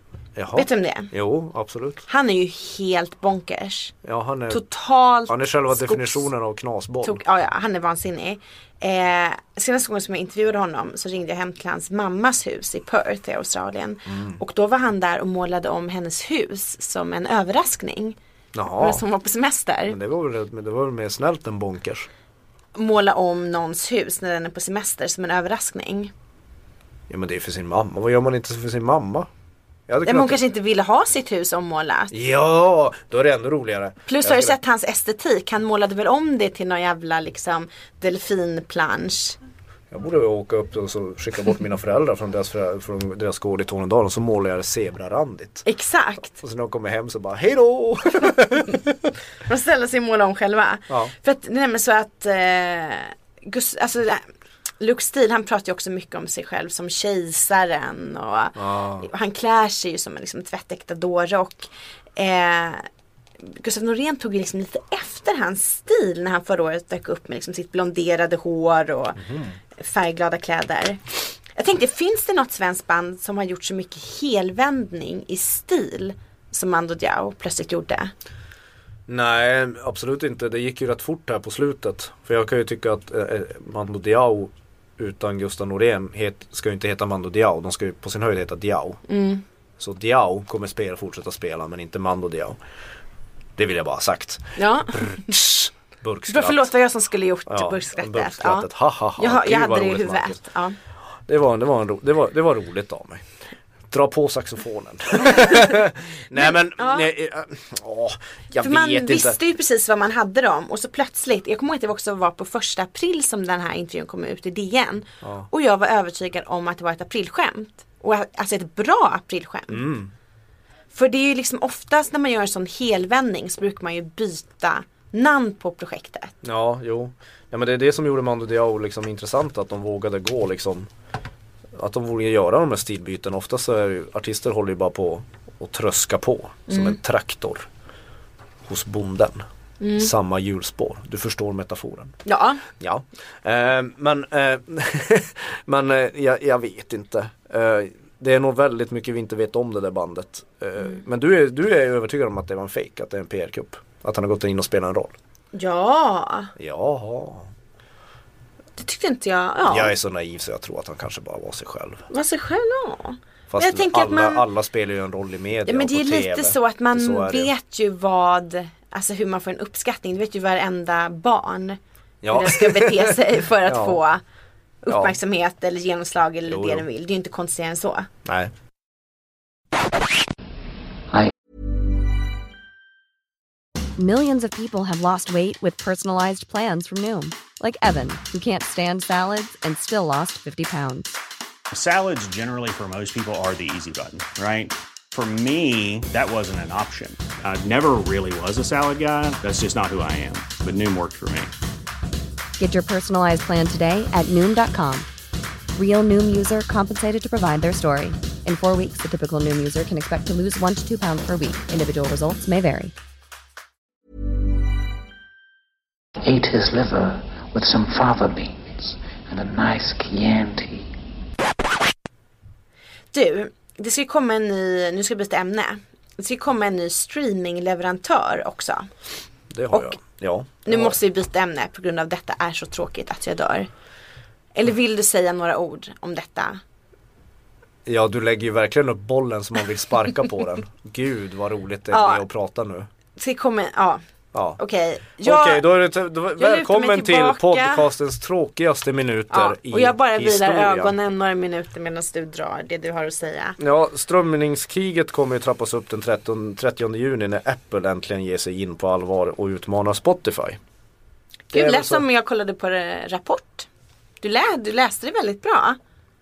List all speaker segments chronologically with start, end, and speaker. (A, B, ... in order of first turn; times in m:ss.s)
0:00.4-0:02.0 A
0:00.5-0:01.1 B
0:02.1-0:03.9 B
0:04.0-0:04.6 A
0:04.5-0:06.3 B
0:05.3-0:07.2 A
0:07.0-0:18.2 B
0:14.1-0:14.4 A
0:18.5-0:19.0 A
0:18.8-0:20.0 B
0:19.9-0:22.1 A
0:22.7-0:26.1 B
0:27.1-0:29.3 A
0:29.9-0:30.4 A
0:30.0-0:32.1 B
0:32.1-0:34.6 A
0:34.0-0:39.4 B
0:39.9-0:45.6 A
0:45.6-0:46.3 B
0:46.3-0:49.1 A
0:49.4-0:54.2 B
0:54.8-1:02.9 B
0:58.6-0:59.1 A
1:03.4-1:18.1 B
1:09.2-1:09.5 A
1:19.1-1:29.0 A
1:29.1-1:29.4 B
1:29.8-1:32.6 A
1:33.6-1:36.7 A
1:34.6-1:35.3 B
1:36.3-1:40.8 B
1:37.5-1:40.4 A
1:41.3-1:43.2 A
1:43.9-1:49.4 A
1:45.2-1:45.7 B
1:46.4-1:47.1 B
1:48.6-1:59.9 B
1:59.7-2:00.1 A
2:00.9-2:06.3 B
2:06.4-2:10.9 A
2:11.7-2:17.7 A
2:16.7-2:17.0 B
2:18.6-2:19.4 A
2:19.8-2:20.1 B
2:20.0-2:22.2 A
2:22.2-2:22.6 B
2:22.7-2:35.2 A
2:35.5-2:36.5 B
2:36.6-2:37.5 A
2:38.8-2:39.9 B
2:39.6-2:42.0 A
2:42.1-2:44.4 B
2:43.5-2:47.5 A
2:45.6-2:51.8 B
2:52.2-2:54.0 A
2:52.3-2:54.2 B
2:54.8-2:58.1 B
2:54.9-2:55.1 A
2:56.5-2:56.8 A
2:58.2-2:58.5 A
3:04.0-3:11.2 C
3:11.7-3:21.5 D
3:22.6-3:25.1 C
3:25.7-3:32.9 C
3:36.2-3:40.9 E
3:43.1-3:48.9 B
3:49.5-3:51.0 A
3:49.7-3:50.0 B
3:50.6-3:53.7 B
3:54.5-3:56.6 B
3:57.8-4:02.9 A
4:01.9-4:02.2 B
4:03.2-4:04.0 B
4:04.3-4:04.6 A
4:04.6-4:05.6 B
4:05.2-4:10.9 A
4:06.4-4:07.9 B
4:09.3-4:13.6 B
4:13.6-4:20.6 A
4:21.5-4:22.0 A
4:21.5-4:23.7 B
4:24.2-4:25.8 B